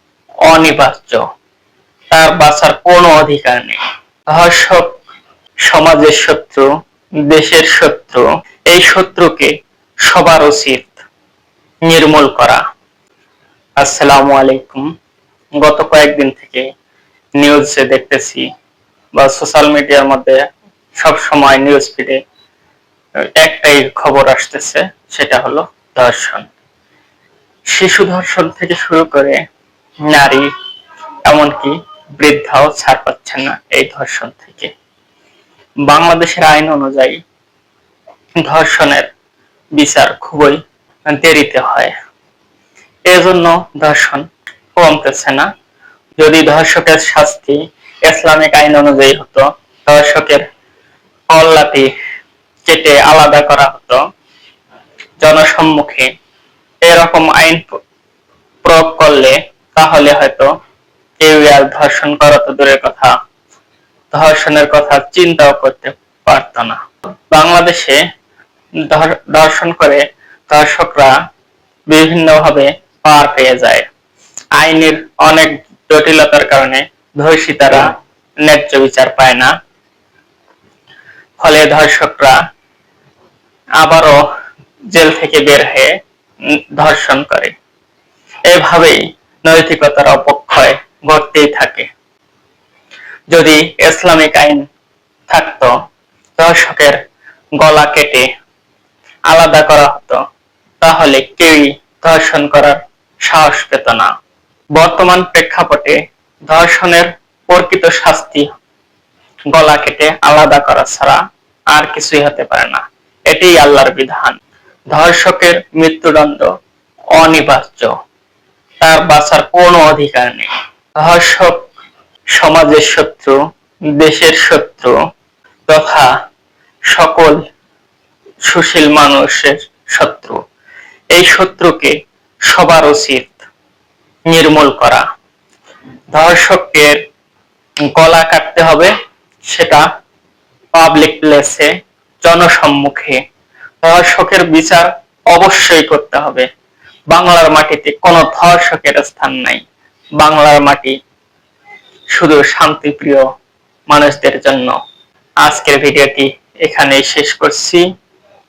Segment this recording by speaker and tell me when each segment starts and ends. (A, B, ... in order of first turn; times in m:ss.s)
0:00.5-0:01.2 A
0:02.1-0:03.8 A
0:04.3-0:05.0 A
0:05.7-0:06.7 A
0:07.3-0:09.5 A
0:10.0-0:11.0 A
0:11.9-0:12.6 A
0:13.8-0:14.9 A
0:15.6-0:16.7 A
0:17.4-0:18.4 A
0:19.2-0:20.4 A
0:21.0-0:22.2 A
0:23.4-0:26.5 A
0:27.7-0:29.4 A
0:30.1-0:30.5 A
0:31.3-0:34.7 A
0:35.9-0:37.2 A
0:38.4-0:39.1 A
0:39.8-0:41.9 A
0:43.1-0:45.5 A
0:46.2-0:50.4 A
0:51.3-0:51.9 A
0:52.7-0:54.0 A
0:55.2-0:56.1 A
0:56.8-0:57.8 A
0:58.6-1:00.5 A
1:01.2-1:03.1 A
1:04.1-1:06.8 A
1:07.3-1:08.0 A
1:08.8-1:11.1 A
1:11.9-1:13.9 A
1:14.6-1:17.9 A
1:18.4-1:19.5 A
1:21.4-1:22.3 A
1:23.8-1:24.2 A
1:24.9-1:25.9 A
1:26.8-1:27.6 A
1:28.5-1:31.9 A
1:33.3-1:34.6 A
1:35.3-1:35.7 A
1:36.4-1:37.0 A
1:37.6-1:38.2 A
1:39.3-1:40.2 A
1:40.8-1:44.1 A
1:44.8-1:48.5 A
1:49.5-1:51.2 A
1:51.7-1:54.4 A
1:54.9-1:56.5 A
1:57.2-1:57.9 A
1:58.8-2:01.7 A
2:02.4-2:03.4 A
2:04.0-2:04.9 A
2:05.7-2:06.1 A
2:06.9-2:07.4 A
2:08.4-2:10.4 A
2:11.1-2:12.0 A
2:12.5-2:13.4 A
2:14.3-2:15.0 A
2:16.1-2:17.0 A
2:17.9-2:18.9 A
2:19.5-2:19.8 A
2:20.7-2:21.7 A
2:22.2-2:23.2 A
2:23.8-2:26.5 A
2:27.1-2:29.6 A
2:30.2-2:31.0 A
2:32.1-2:33.2 A
2:33.9-2:34.7 A
2:35.4-2:37.9 A